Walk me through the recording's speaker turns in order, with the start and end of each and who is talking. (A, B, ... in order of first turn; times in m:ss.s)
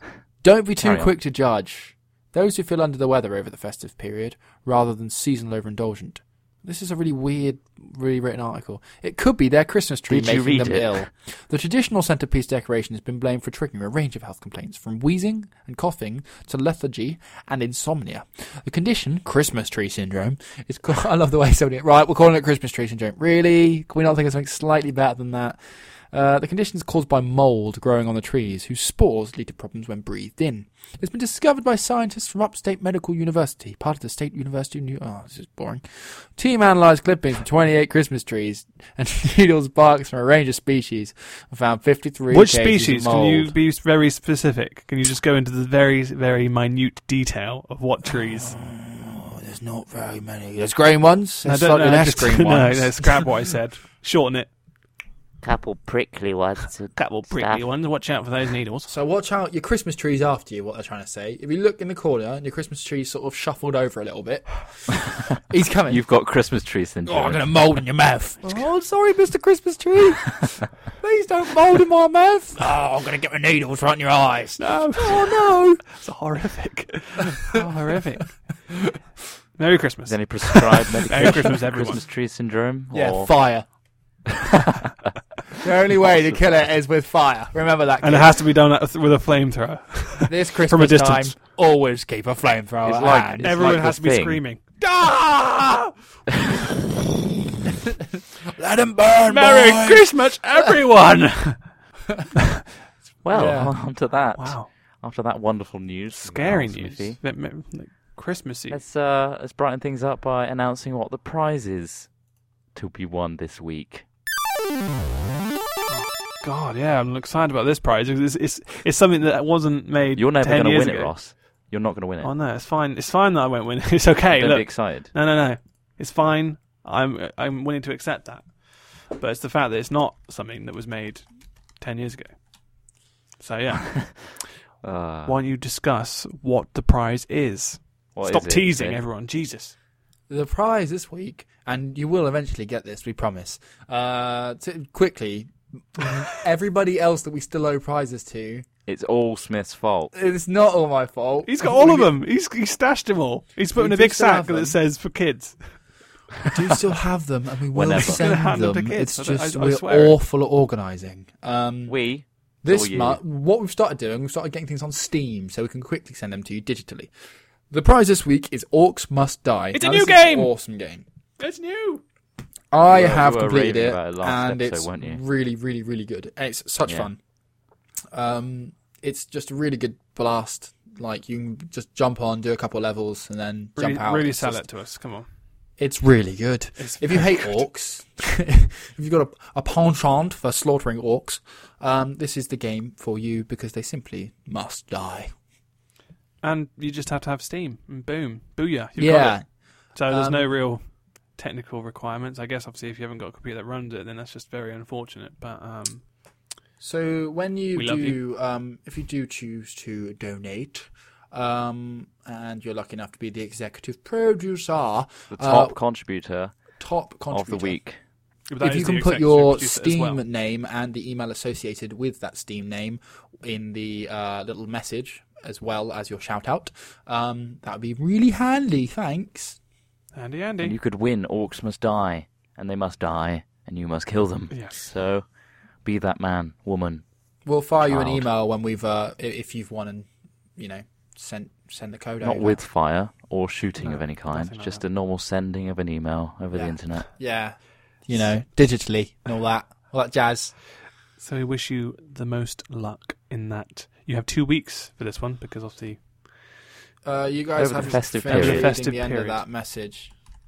0:00.4-0:25.6 A
0:00.8-0:01.1 B
0:10.1-0:11.0 B
0:26.1-0:43.5 A
0:42.3-0:48.6 C
0:48.4-0:53.3 A
0:51.4-0:54.5 C
0:55.4-0:57.6 D
0:57.0-0:58.9 C
0:58.9-1:06.0 A
1:05.9-1:07.5 B
1:07.0-1:15.8 A
1:14.6-1:18.4 C
1:18.7-1:19.0 A
1:19.6-1:22.0 C
1:20.0-1:23.3 B
1:22.9-1:23.6 A
1:24.7-1:25.1 B
1:25.6-1:28.3 A
1:26.0-1:26.4 B
1:28.0-1:31.4 C
1:30.2-1:33.8 A
1:32.8-1:34.4 B
1:33.4-1:34.6 C
1:34.8-1:35.9 A
1:37.8-1:40.1 A
1:39.2-1:41.7 C
1:43.2-1:47.2 B
1:43.3-1:43.7 A
1:44.3-1:44.7 C
1:46.1-1:48.8 C
1:48.7-1:52.1 B
1:52.7-1:54.0 B
1:55.9-2:01.4 C
2:00.1-2:02.3 B
2:02.2-2:11.3 C
2:04.3-2:05.1 B
2:11.8-2:12.4 C
2:13.4-2:14.3 C
2:14.8-2:15.3 B
2:15.2-2:19.7 C
2:18.1-2:19.0 B
2:20.3-2:28.6 A
2:28.9-2:30.1 B
2:30.1-2:32.1 A
2:31.4-2:35.8 C
2:33.8-2:34.8 A
2:36.5-2:42.0 A
2:37.7-2:38.2 B
2:38.0-2:40.2 C
2:41.9-2:43.2 B
2:42.6-2:47.1 A
2:47.7-2:51.0 A
2:49.7-2:50.5 C
2:51.4-2:52.0 C
2:52.7-2:57.2 A
2:52.9-2:55.2 B
2:58.1-3:04.6 A
3:03.8-3:05.3 C
3:05.8-3:15.3 A
3:06.8-3:07.6 C
3:16.4-3:19.4 C
3:19.0-3:20.5 A
3:19.9-3:26.0 C
3:26.8-3:35.8 A
3:27.7-3:28.2 C
3:35.3-3:36.6 B
3:36.8-3:37.8 A
3:37.3-3:38.0 B
3:38.5-3:40.2 C
3:38.6-3:49.6 A
3:50.1-3:50.8 C
3:50.6-3:55.3 B
3:54.5-3:54.9 C
3:55.8-3:57.0 B
3:57.4-4:02.6 A
3:57.8-3:58.3 B
4:02.2-4:07.1 B
4:03.8-4:04.8 C
4:06.5-4:10.6 A
4:11.2-4:16.0 C
4:17.0-4:20.1 A
4:17.6-4:18.7 B
4:18.2-4:19.4 C